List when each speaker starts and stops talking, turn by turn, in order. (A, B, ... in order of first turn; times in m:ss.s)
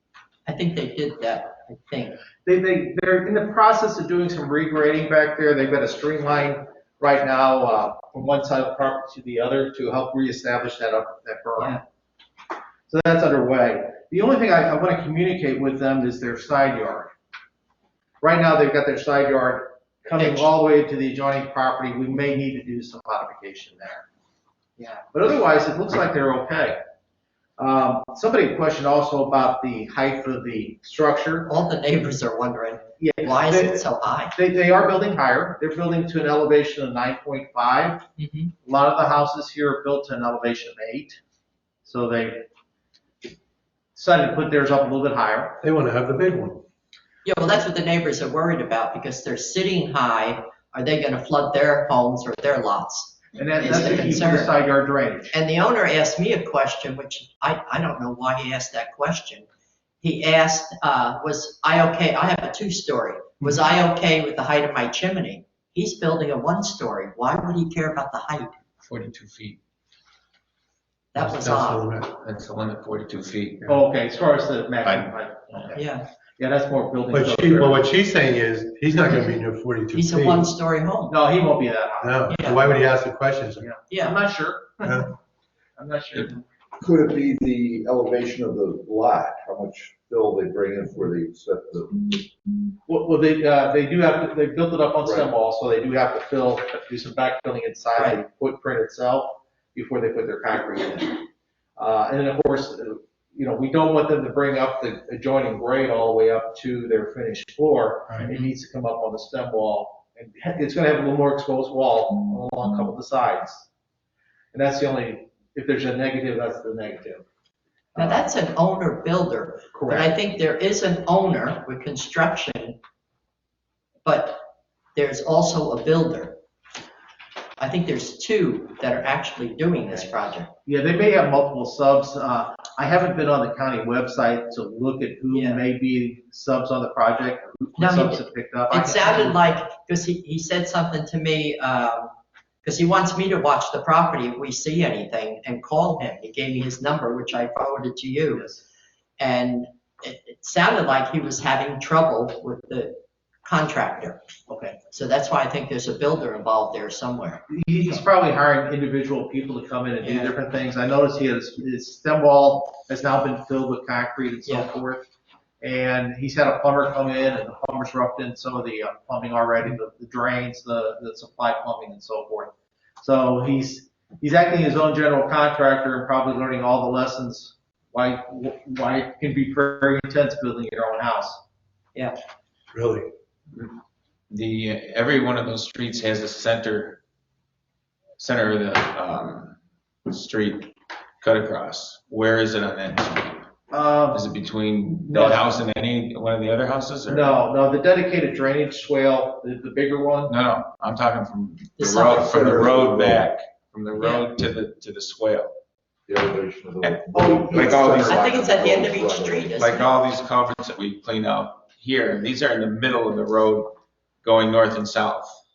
0:00.5-0:02.2 A
0:02.4-0:11.8 B
0:12.9-0:17.1 B
0:18.2-0:24.1 B
0:20.2-0:20.5 A
0:24.8-0:26.8 B
0:27.6-0:31.5 B
0:31.5-0:34.4 A
0:33.0-0:38.0 B
0:38.2-0:38.5 A
0:38.6-0:41.2 B
0:41.8-0:42.4 B
0:44.0-0:45.6 B
0:45.6-0:46.6 C
0:47.2-0:54.5 A
0:53.4-0:55.4 B
0:55.3-0:59.5 A
1:00.0-1:08.6 A
1:08.8-1:09.6 D
1:11.1-1:12.0 A
1:11.2-1:12.1 C
1:12.1-1:13.7 D
1:13.7-1:15.8 B
1:14.8-1:15.7 D
1:15.8-1:16.1 A
1:16.4-1:17.9 B
1:17.1-1:20.4 C
1:19.9-1:21.1 A
1:21.1-1:22.8 B
1:22.0-1:23.7 C
1:22.3-1:22.6 A
1:23.6-1:25.1 B
1:23.9-1:24.2 A
1:25.8-1:26.4 B
1:26.8-1:32.3 E
1:32.9-1:41.2 B
1:35.0-1:35.3 E
1:41.8-1:53.7 B
1:54.5-1:57.2 B
1:58.0-1:58.2 B
1:58.0-2:02.8 A
1:59.7-2:00.1 B
2:04.0-2:04.4 A
2:05.0-2:06.4 A
2:07.6-2:10.5 A
2:09.8-2:19.4 B
2:15.3-2:15.6 A
2:17.8-2:22.1 A
2:22.6-2:28.5 A
2:28.3-2:28.6 B
2:29.2-2:34.2 A
2:34.5-2:34.8 B
2:34.9-2:38.0 A
2:37.5-2:45.1 B
2:40.0-2:40.4 A
2:45.6-3:01.4 B
3:02.7-3:03.1 C
3:04.3-3:07.0 D
3:08.2-3:09.6 D
3:10.1-3:13.5 D
3:13.7-3:14.2 B
3:14.1-3:17.3 D
3:15.1-3:15.4 B
3:17.1-3:20.4 B
3:20.3-3:25.5 D
3:21.8-3:22.5 A
3:22.1-3:23.3 E
3:24.0-3:24.2 A
3:26.1-3:29.6 E
3:26.8-3:28.4 D
3:27.1-3:28.2 B
3:28.1-3:30.0 A
3:29.6-3:35.4 D